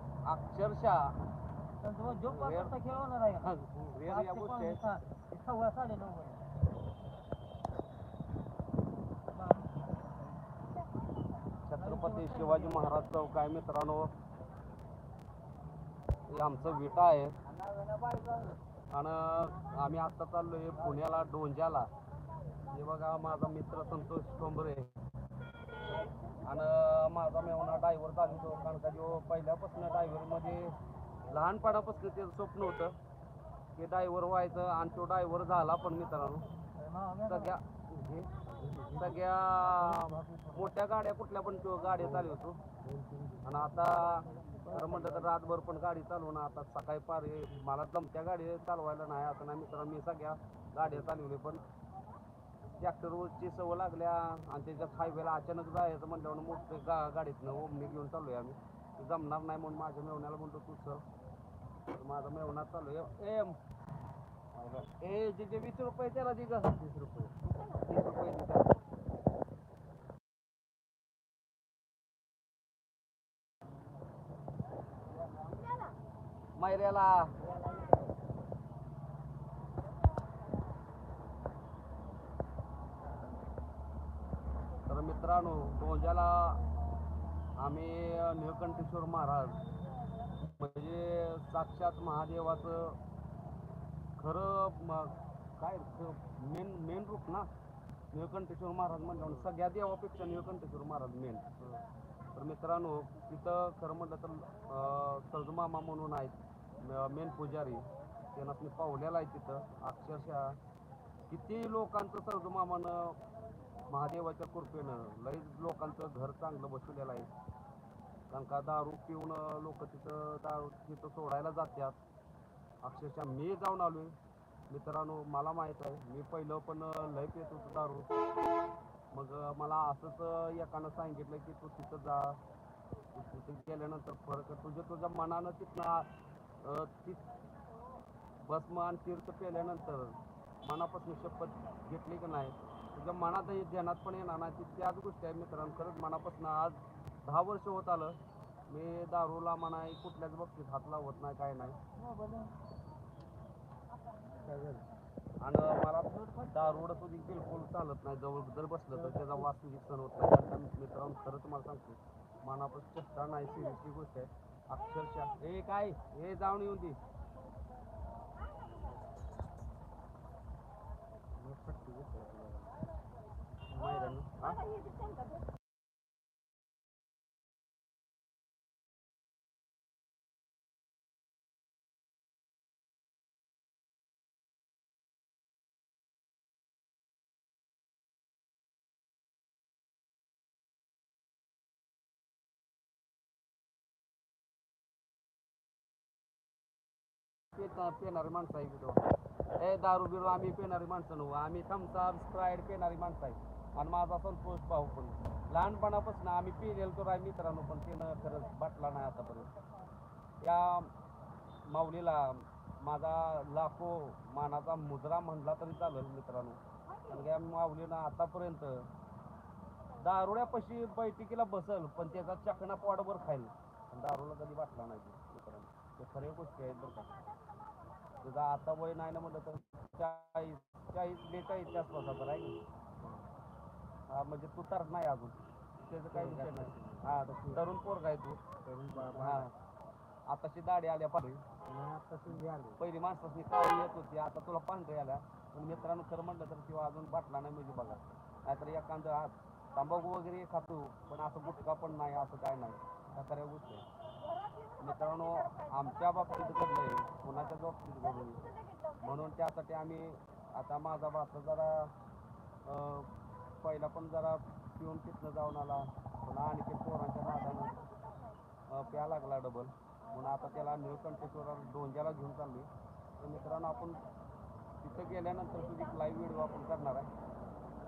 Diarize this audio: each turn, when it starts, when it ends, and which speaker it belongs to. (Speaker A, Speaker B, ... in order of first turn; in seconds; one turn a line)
Speaker A: 0.2-1.2
Speaker B: 1.8-6.5
Speaker A: 2.1-2.8
Speaker A: 3.4-4.8
Speaker B: 9.3-10.3
Speaker A: 11.7-14.1
Speaker B: 11.8-13.0
Speaker A: 16.3-17.4
Speaker C: 18.0-18.5
Speaker A: 18.9-21.9
Speaker A: 22.7-24.9
Speaker A: 26.3-33.0
Speaker A: 33.8-36.5
Speaker B: 36.8-37.5
Speaker A: 37.2-42.6
Speaker C: 38.6-39.1
Speaker C: 42.8-43.6
Speaker A: 43.4-51.6
Speaker C: 44.2-45.4
Speaker A: 52.8-61.0
Speaker A: 61.9-63.6
Speaker A: 64.5-68.8
Speaker A: 76.6-77.4
Speaker A: 84.9-86.6
Speaker A: 87.6-89.6
Speaker A: 90.4-93.0
Speaker A: 94.2-97.5
Speaker A: 98.1-101.5
Speaker A: 102.3-110.6
Speaker A: 111.3-113.2
Speaker A: 113.9-117.3
Speaker A: 118.3-122.0
Speaker A: 122.8-124.2
Speaker A: 124.7-128.2
Speaker A: 129.1-132.4
Speaker A: 133.1-136.1
Speaker A: 136.6-137.2
Speaker A: 138.4-151.8
Speaker B: 152.0-152.6
Speaker C: 154.4-154.8
Speaker A: 155.4-167.0
Speaker C: 171.4-172.8
Speaker A: 173.7-174.8
Speaker A: 197.5-199.0
Speaker A: 199.6-209.5
Speaker A: 210.4-210.9
Speaker A: 211.7-218.9
Speaker A: 219.9-227.2
Speaker A: 228.2-232.6
Speaker A: 234.1-238.4
Speaker C: 236.1-237.6
Speaker C: 238.6-239.5
Speaker A: 239.1-239.6
Speaker A: 240.3-241.4
Speaker C: 241.7-242.8
Speaker A: 242.8-253.9
Speaker A: 254.8-261.9
Speaker A: 262.6-267.9
Speaker A: 268.7-274.1
Speaker A: 274.8-277.1